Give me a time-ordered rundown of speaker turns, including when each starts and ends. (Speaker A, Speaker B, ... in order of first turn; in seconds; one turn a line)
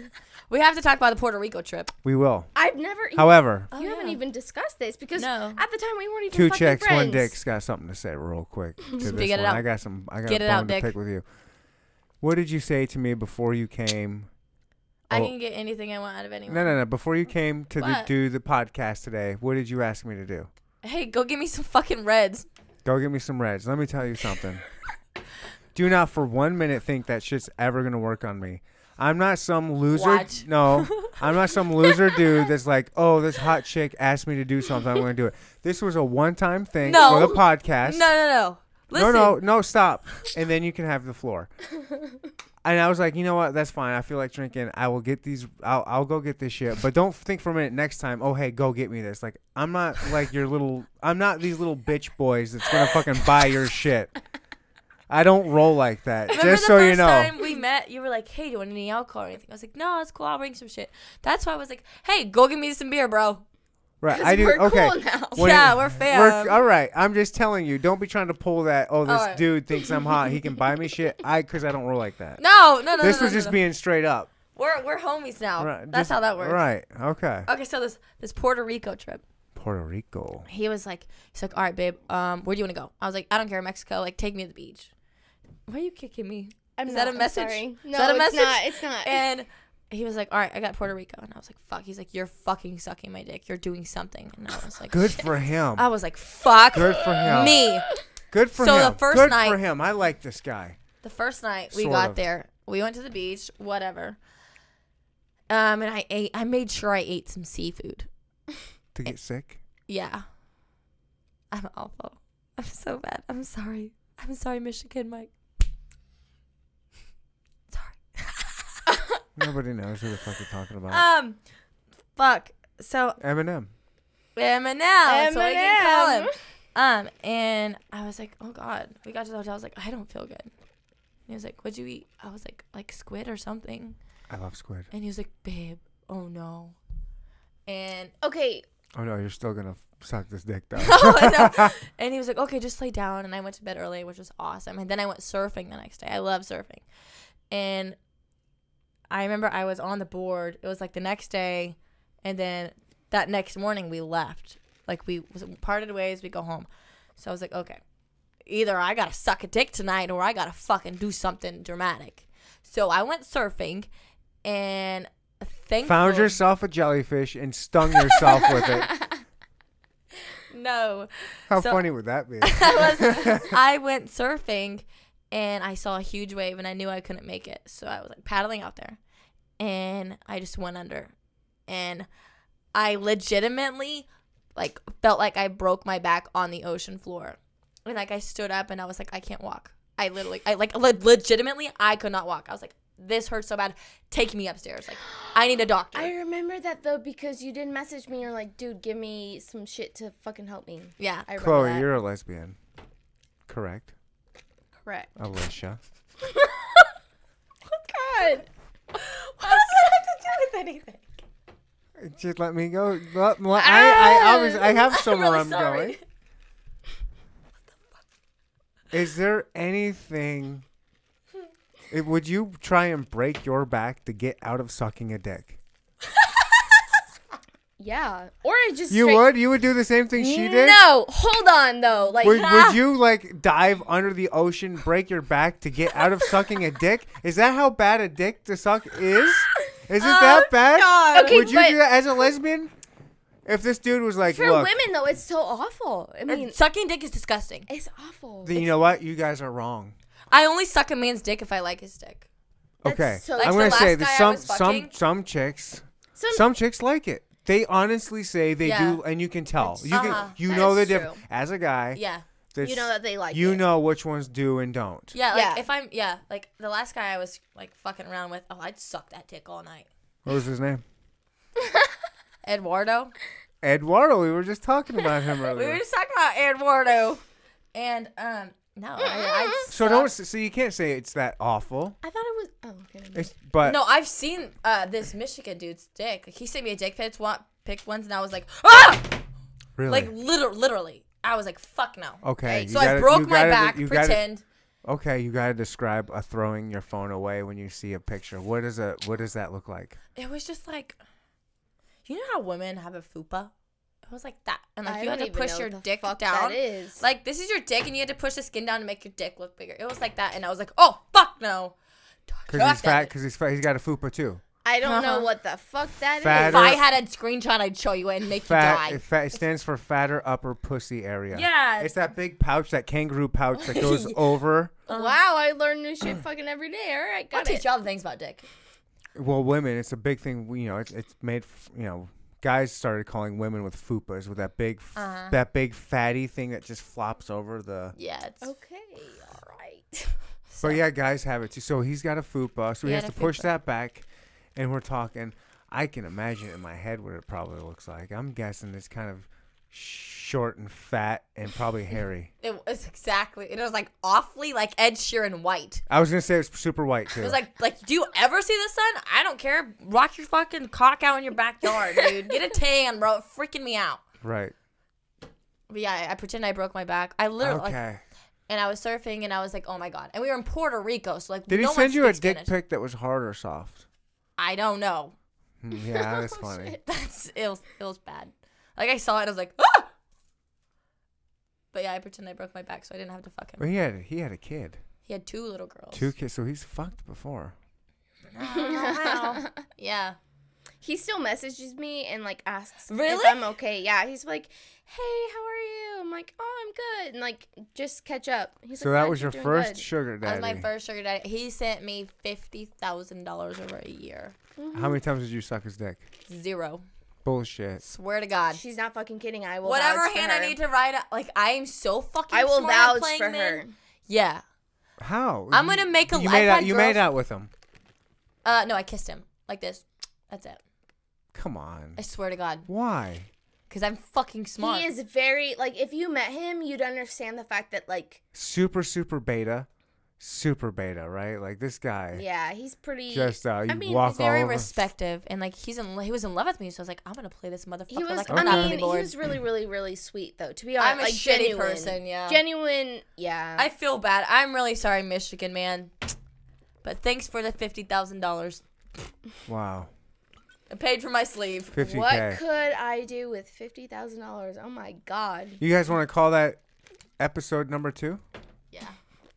Speaker A: 0.5-1.9
Speaker B: 2.0-2.5
Speaker C: 2.5-7.3
Speaker B: 3.1-3.7
Speaker A: 3.7-4.2
Speaker A: 5.2-5.6
Speaker B: 6.3-11.2
Speaker A: 9.0-9.6
Speaker A: 10.2-10.9
Speaker B: 12.2-14.3
Speaker A: 15.1-16.8
Speaker B: 16.5-20.5
Speaker A: 17.8-18.1
Speaker A: 20.8-22.5
Speaker B: 22.8-24.6
Speaker B: 25.7-38.1
Speaker A: 29.9-32.1
Speaker A: 36.8-39.4
Speaker C: 36.9-37.4
Speaker B: 38.9-41.5
Speaker B: 42.6-54.1
Speaker B: 55.1-57.3
Speaker A: 56.3-63.4
Speaker B: 64.0-72.4
Speaker C: 64.1-65.5
Speaker A: 65.3-66.5
Speaker A: 69.0-69.5
Speaker A: 72.4-73.6
Speaker B: 73.0-74.3
Speaker A: 74.5-76.6
Speaker B: 75.6-77.5
Speaker A: 77.5-79.2
Speaker B: 79.5-80.5
Speaker A: 80.5-84.9
Speaker A: 85.7-97.9
Speaker C: 86.8-89.2
Speaker B: 94.9-95.9
Speaker B: 96.7-97.6
Speaker C: 97.6-97.9
Speaker B: 98.3-100.8
Speaker A: 98.5-99.6
Speaker A: 101.0-104.2
Speaker B: 101.7-102.2
Speaker A: 105.5-108.1
Speaker B: 108.9-109.6
Speaker A: 109.9-110.2
Speaker A: 111.5-115.3
Speaker A: 117.7-118.9
Speaker B: 119.3-121.0
Speaker A: 120.9-121.4
Speaker A: 122.2-123.2
Speaker B: 123.2-123.7
Speaker A: 124.3-130.5
Speaker C: 125.0-126.3
Speaker A: 131.3-134.0
Speaker B: 134.3-134.9
Speaker A: 134.9-136.8
Speaker A: 137.7-138.1
Speaker C: 138.2-138.6
Speaker B: 138.9-141.7
Speaker A: 140.8-146.8
Speaker A: 147.5-148.0
Speaker A: 149.1-157.8
Speaker A: 158.4-163.9
Speaker A: 164.4-166.4
Speaker B: 165.8-169.0
Speaker A: 167.9-168.2
Speaker A: 170.5-171.8
Speaker B: 171.5-173.6
Speaker A: 172.4-179.0
Speaker A: 179.6-181.1
Speaker A: 181.7-182.1
Speaker A: 182.7-196.1
Speaker C: 195.9-201.9
Speaker A: 201.0-201.3
Speaker B: 201.4-202.6
Speaker B: 203.5-203.9
Speaker B: 205.2-205.8
Speaker C: 206.2-206.8
Speaker C: 207.7-208.4
Speaker A: 208.9-211.1
Speaker B: 212.0-216.0
Speaker C: 213.5-215.0
Speaker A: 214.9-216.0
Speaker B: 218.9-220.6
Speaker B: 221.9-225.6
Speaker C: 227.8-229.3
Speaker B: 228.9-230.8
Speaker C: 230.1-232.8
Speaker B: 232.2-242.7
Speaker A: 240.0-241.5
Speaker C: 241.1-241.9
Speaker B: 243.4-244.7
Speaker C: 244.3-246.6
Speaker A: 246.3-247.7
Speaker C: 247.7-248.8
Speaker B: 248.4-249.9
Speaker A: 250.3-252.3
Speaker B: 252.8-262.0
Speaker C: 252.8-253.9
Speaker A: 253.4-254.9
Speaker C: 256.1-256.4
Speaker A: 258.6-259.0
Speaker C: 259.6-261.2
Speaker A: 259.9-260.4
Speaker A: 261.9-262.2
Speaker B: 262.5-265.1
Speaker C: 262.6-263.6
Speaker A: 265.1-269.9
Speaker C: 265.3-265.6
Speaker B: 270.2-270.8
Speaker A: 272.4-273.1
Speaker B: 273.6-275.8
Speaker A: 275.5-277.2
Speaker A: 277.7-280.1
Speaker C: 279.0-279.7
Speaker B: 279.7-282.0
Speaker C: 282.0-283.3
Speaker B: 283.1-283.8
Speaker A: 283.6-289.2
Speaker B: 289.8-290.1
Speaker A: 289.9-294.4
Speaker B: 292.2-294.2
Speaker C: 292.4-293.0
Speaker B: 294.8-300.0
Speaker A: 300.1-301.0
Speaker A: 302.1-303.5
Speaker A: 304.1-311.7
Speaker C: 304.9-307.0
Speaker A: 312.3-313.1
Speaker B: 312.5-314.4
Speaker C: 314.6-316.8
Speaker A: 314.8-315.3
Speaker B: 316.2-316.8
Speaker A: 316.3-319.0
Speaker B: 318.4-324.7
Speaker A: 321.3-322.0
Speaker A: 323.6-324.2
Speaker A: 324.9-325.1
Speaker C: 324.9-327.6
Speaker A: 327.3-328.5
Speaker B: 329.1-337.9
Speaker A: 334.9-335.4
Speaker A: 337.9-338.5
Speaker C: 338.4-340.2
Speaker A: 340.5-340.8
Speaker B: 340.6-352.3
Speaker A: 342.8-343.5
Speaker A: 352.4-355.8
Speaker B: 355.9-357.4
Speaker A: 357.2-364.0
Speaker B: 364.2-364.5
Speaker A: 365.7-367.8
Speaker B: 367.4-368.0
Speaker A: 368.5-372.5
Speaker B: 371.5-373.8
Speaker A: 374.4-375.1
Speaker B: 375.6-376.8
Speaker A: 376.8-379.9
Speaker A: 381.7-383.7
Speaker B: 383.6-384.8
Speaker A: 385.1-386.1
Speaker B: 385.9-387.5
Speaker A: 388.3-390.2
Speaker C: 388.5-389.5
Speaker C: 390.8-399.9
Speaker A: 392.9-393.4
Speaker B: 398.8-400.6
Speaker A: 400.2-404.3
Speaker C: 404.6-405.0
Speaker B: 404.7-406.0
Speaker A: 406.3-406.8
Speaker B: 407.2-407.8
Speaker A: 407.8-408.6
Speaker C: 408.5-410.6
Speaker A: 409.6-414.4
Speaker C: 412.3-413.7
Speaker B: 415.0-417.5
Speaker A: 415.5-417.0
Speaker A: 418.4-420.6
Speaker B: 421.3-422.0
Speaker A: 422.0-422.7
Speaker B: 422.7-423.3
Speaker A: 423.7-424.9
Speaker C: 424.6-428.2
Speaker B: 428.3-429.7
Speaker B: 430.2-432.2
Speaker C: 432.1-434.3
Speaker B: 433.1-434.7
Speaker A: 434.1-439.1
Speaker C: 437.9-443.7
Speaker B: 438.3-438.8
Speaker A: 440.8-442.4
Speaker A: 443.6-445.9
Speaker A: 446.8-448.6
Speaker B: 449.4-449.9
Speaker A: 450.7-451.8
Speaker B: 451.7-452.4
Speaker C: 451.8-455.6
Speaker B: 455.6-456.6
Speaker B: 457.2-458.2